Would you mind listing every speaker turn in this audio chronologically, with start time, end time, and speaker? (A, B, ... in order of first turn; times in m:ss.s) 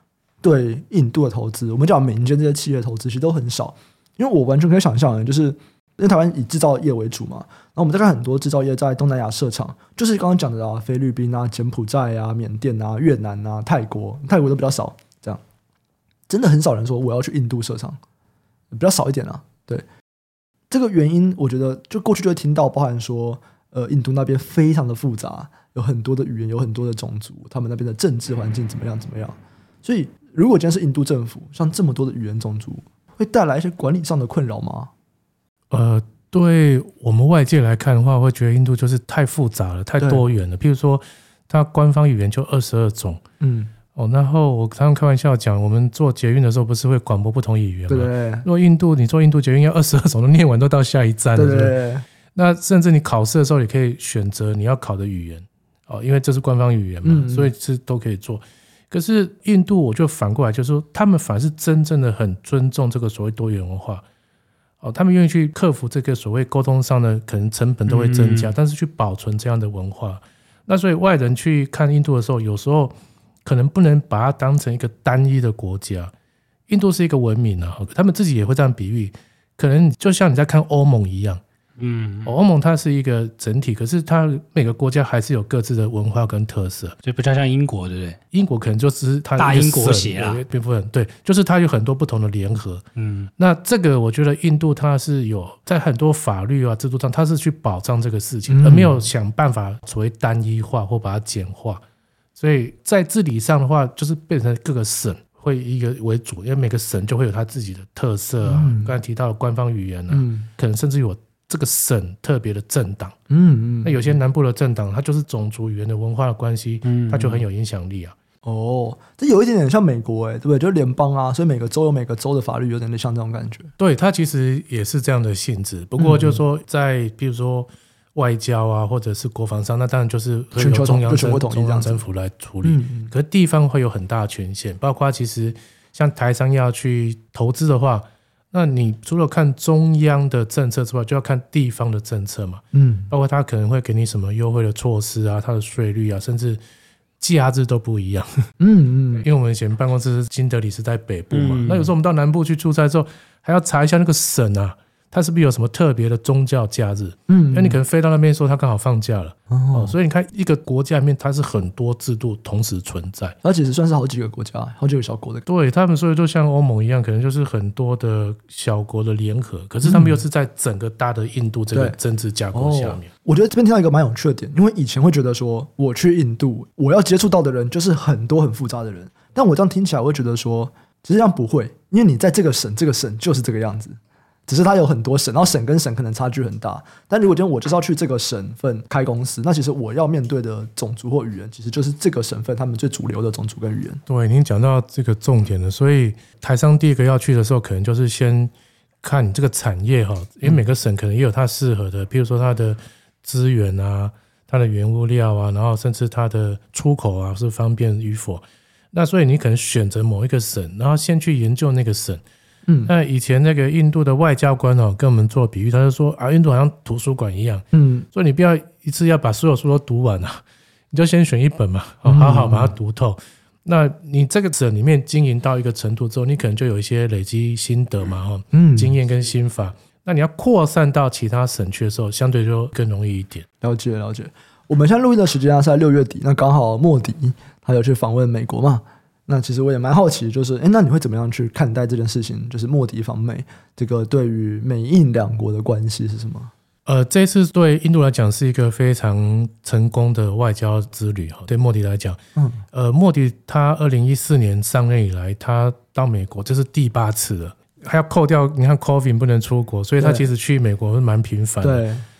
0:00.4-0:15.4 A
0:16.3-0:18.0 A
0:18.7-0:19.8 A
0:20.7-0:34.9 A
0:35.7-0:43.2 B
0:43.4-0:43.7 A
0:43.9-0:51.8 B
0:47.9-0:48.4 A
0:51.3-0:52.0 A
0:52.3-1:04.0 B
0:57.0-0:57.5 A
1:04.8-1:16.1 B
1:07.9-1:08.5 C
1:16.7-1:21.4 B
1:21.8-1:22.3 C
1:22.2-1:27.0 B
1:27.0-1:28.2 C
1:28.3-1:32.8 B
1:29.4-1:30.4 C
1:33.0-1:33.3 C
1:33.4-1:41.8 B
1:38.5-1:39.0 A
1:42.4-1:53.2 B
1:48.4-1:48.9 A
1:50.1-1:50.5 A
1:53.3-1:54.1 A
1:53.8-1:58.2 B
1:56.8-1:57.4 C
1:58.4-2:03.7 A
2:03.8-2:26.6 B
2:06.0-2:06.4 A
2:10.6-2:12.0 A
2:12.6-2:13.1 A
2:22.7-2:23.1 A
2:27.2-2:28.4 B
2:28.6-2:29.2 A
2:29.2-2:43.3 B
2:31.3-2:31.9 C
2:37.3-2:37.8 A
2:39.5-2:39.9 A
2:43.4-2:45.4 A
2:45.4-2:53.1 B
2:49.8-2:50.2 A
2:52.5-3:14.0 A
3:14.1-3:18.5 B
3:19.0-3:32.2 B
3:32.7-3:32.9 A
3:32.8-3:53.4 B
3:37.7-3:38.0 A
3:42.0-3:42.7 A
3:48.5-3:48.9 A
3:53.6-4:06.5 A
4:06.8-4:12.2 B
4:12.4-4:12.6 A
4:12.7-4:21.8 B
4:20.0-4:20.2 A
4:21.6-4:22.0 A